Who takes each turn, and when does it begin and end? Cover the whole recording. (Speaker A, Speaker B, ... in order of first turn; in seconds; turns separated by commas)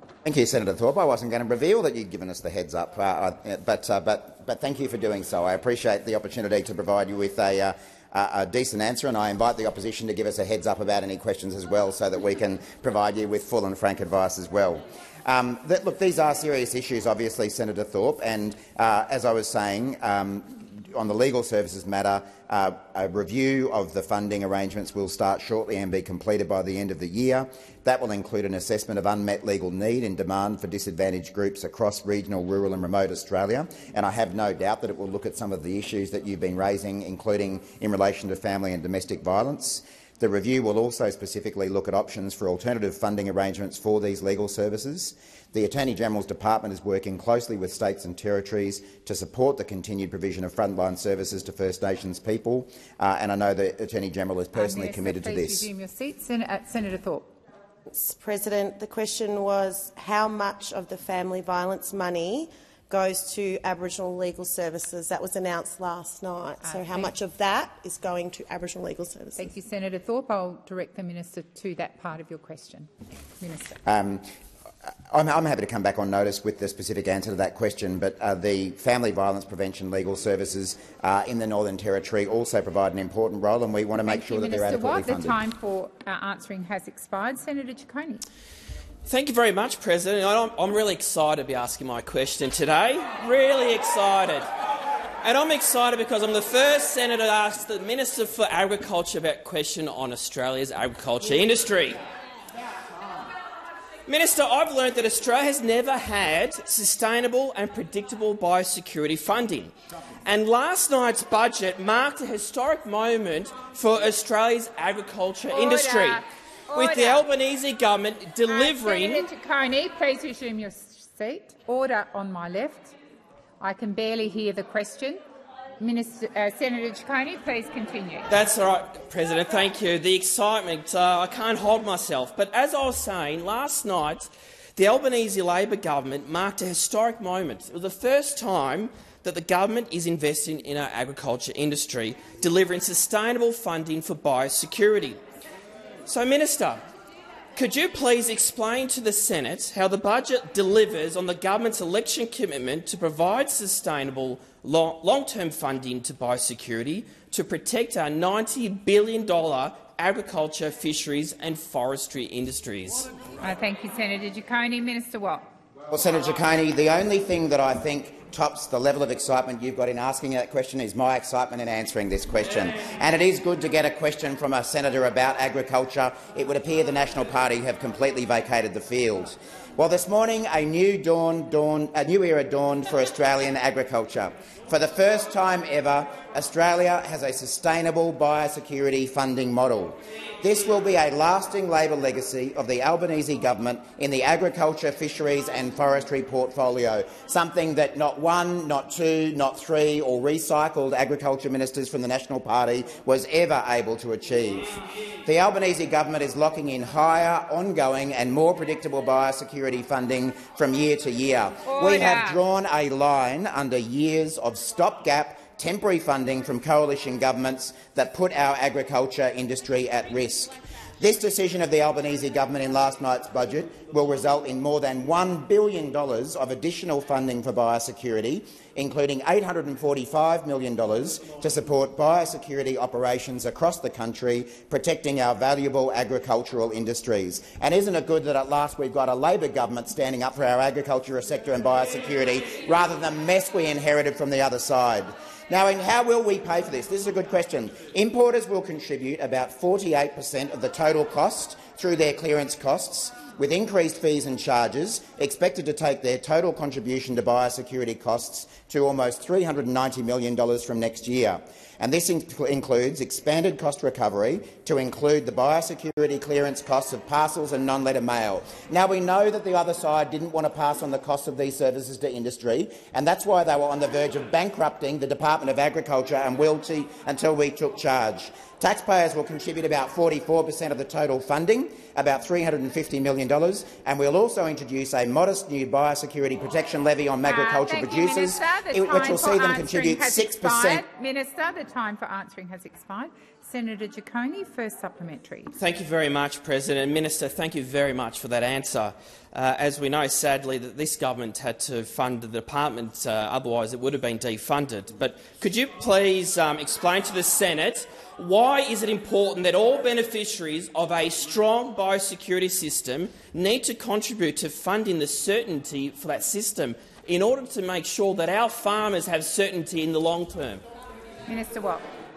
Speaker A: 0.2-55.7, Speaker B: 54.5-57.3, Speaker C: 57.9-69.5, Speaker B: 66.6-67.1, Speaker B: 69.3-73.8, Speaker A: 73.8-74.3, Speaker A: 75.1-85.4, Speaker B: 84.0-88.2, Speaker D: 89.0-94.5, Speaker D: 95.2-102.0, Speaker D: 104.0-109.7, Speaker D: 110.2-119.3, Speaker B: 115.5-117.3, Speaker B: 118.5-122.9, Speaker B: 123.6-125.2, Speaker B: 125.8-128.2, Speaker D: 128.3-145.2, Speaker D: 146.0-146.8, Speaker D: 147.5-163.1, Speaker B: 163.4-165.5, Speaker A: 165.9-290.9, Speaker B: 211.7-212.4, Speaker B: 287.2-295.5, Speaker D: 295.6-320.6, Speaker B: 321.3-321.8